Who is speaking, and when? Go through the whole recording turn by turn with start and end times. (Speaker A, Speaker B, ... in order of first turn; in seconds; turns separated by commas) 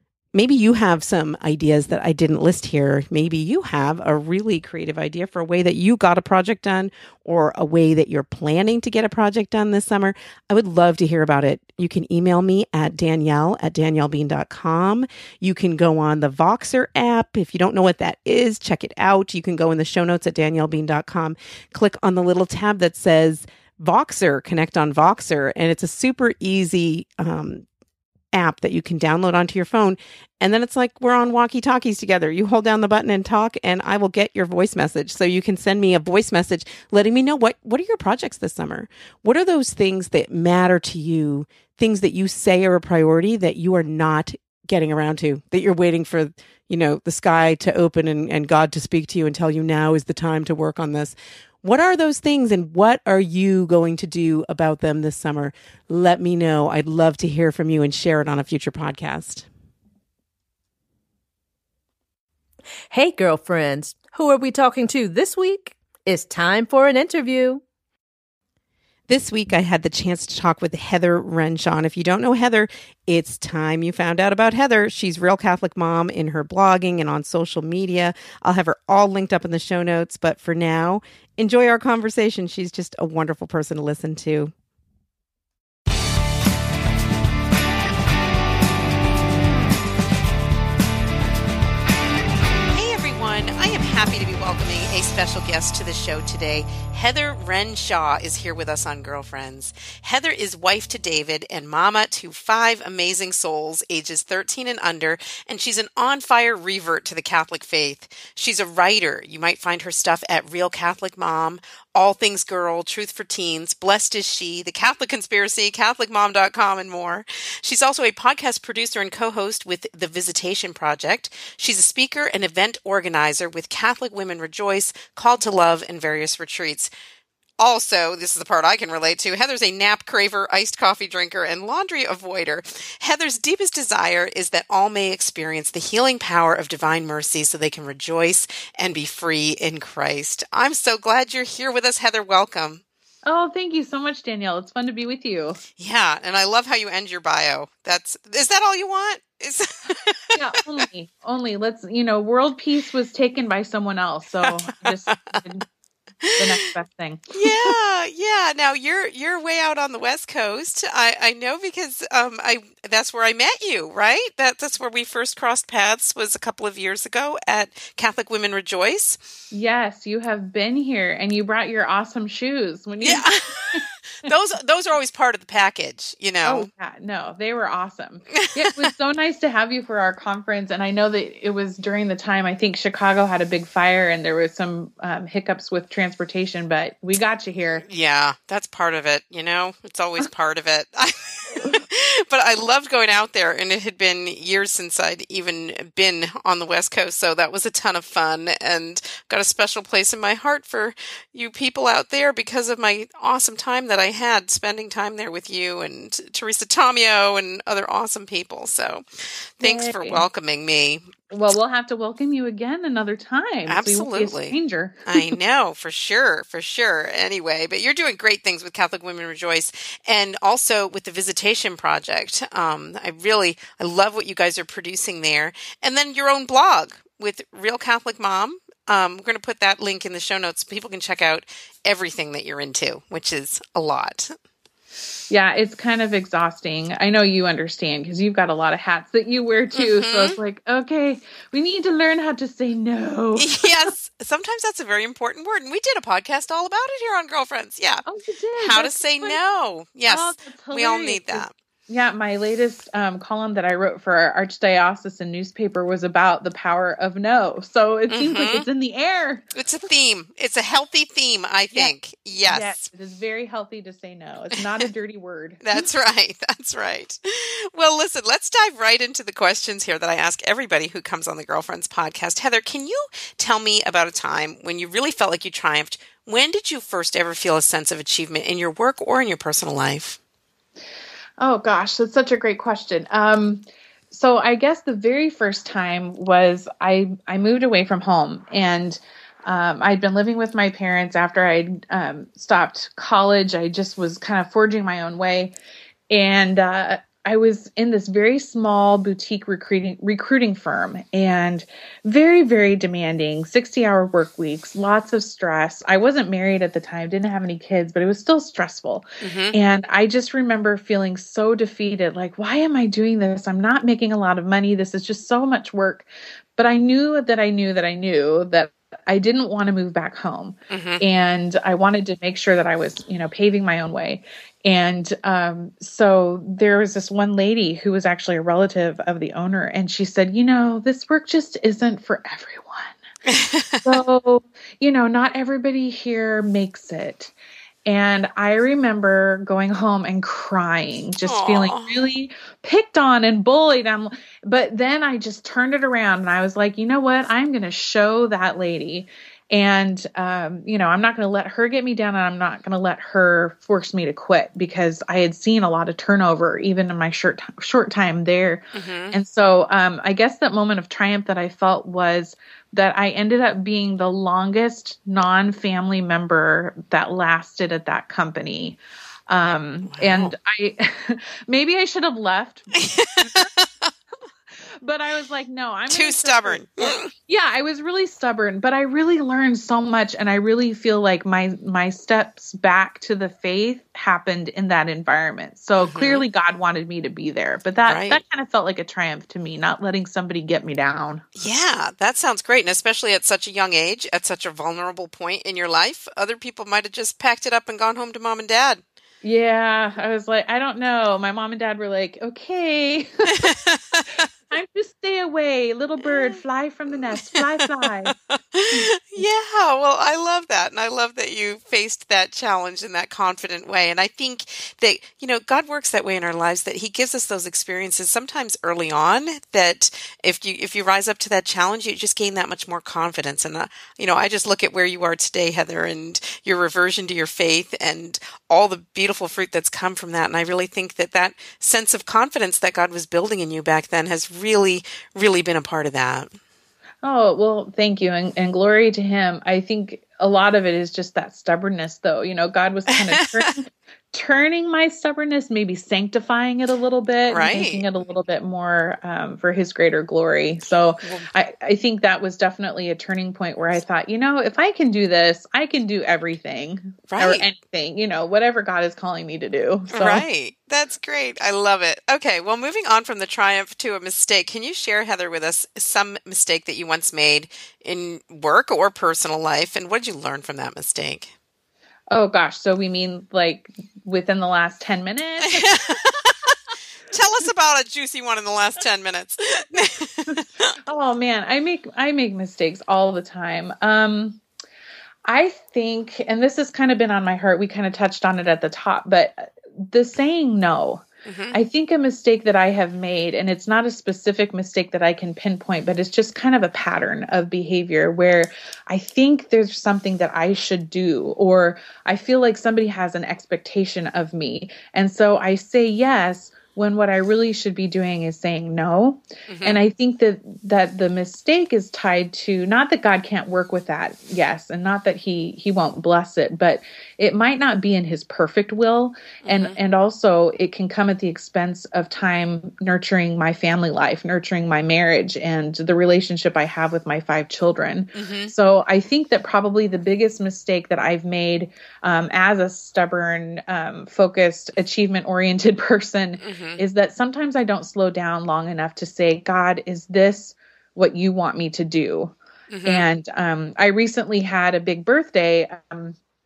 Speaker A: 0.3-27.6, Speaker A: 28.3-59.4, Speaker B: 62.9-67.6, Speaker A: 69.1-84.5, Speaker A: 92.7-126.9, Speaker A: 127.6-142.8, Speaker C: 143.2-145.6, Speaker A: 145.8-150.8, Speaker C: 150.3-155.6, Speaker A: 154.4-155.4, Speaker A: 156.2-156.7, Speaker C: 156.4-157.7, Speaker A: 157.3-169.2, Speaker C: 169.5-173.8, Speaker A: 173.0-176.7, Speaker C: 176.4-187.8, Speaker A: 178.3-178.8, Speaker A: 187.8-211.1, Speaker C: 209.6-210.2, Speaker C: 211.3-215.3, Speaker A: 213.7-214.6, Speaker A: 215.1-234.3, Speaker C: 235.3-243.9, Speaker A: 239.7-240.3, Speaker A: 243.3-248.0, Speaker C: 248.1-249.4, Speaker A: 248.6-251.5, Speaker C: 250.1-259.5, Speaker A: 258.1-258.7, Speaker A: 259.5-262.8, Speaker C: 262.5-265.6, Speaker A: 265.6-280.2, Speaker C: 281.4-295.5, Speaker C: 296.1-333.0, Speaker A: 309.2-309.6, Speaker A: 320.7-321.0, Speaker A: 333.3-333.9, Speaker C: 333.8-337.3, Speaker C: 337.9-373.5, Speaker A: 341.2-342.0, Speaker A: 358.7-359.2, Speaker A: 369.8-370.3, Speaker A: 372.8-373.9, Speaker C: 374.8-391.2, Speaker A: 375.9-377.1, Speaker A: 385.8-386.2, Speaker A: 387.9-388.2, Speaker A: 391.4-398.8, Speaker C: 399.2-403.5, Speaker A: 403.4-404.3, Speaker C: 404.5-408.1, Speaker A: 406.0-406.4, Speaker A: 407.0-436.3, Speaker C: 408.7-409.2, Speaker C: 437.0-460.2, Speaker A: 442.9-443.5, Speaker A: 447.3-447.9, Speaker A: 451.0-451.3, Speaker A: 457.1-457.5, Speaker A: 459.9-471.3, Speaker C: 472.1-475.7, Speaker A: 475.4-476.5, Speaker A: 477.1-480.8, Speaker C: 480.3-484.4, Speaker C: 485.2-546.2, Speaker A: 491.2-491.6, Speaker A: 509.5-509.8, Speaker A: 519.4-519.8, Speaker A: 528.1-528.5, Speaker A: 536.4-536.8, Speaker A: 542.7-543.1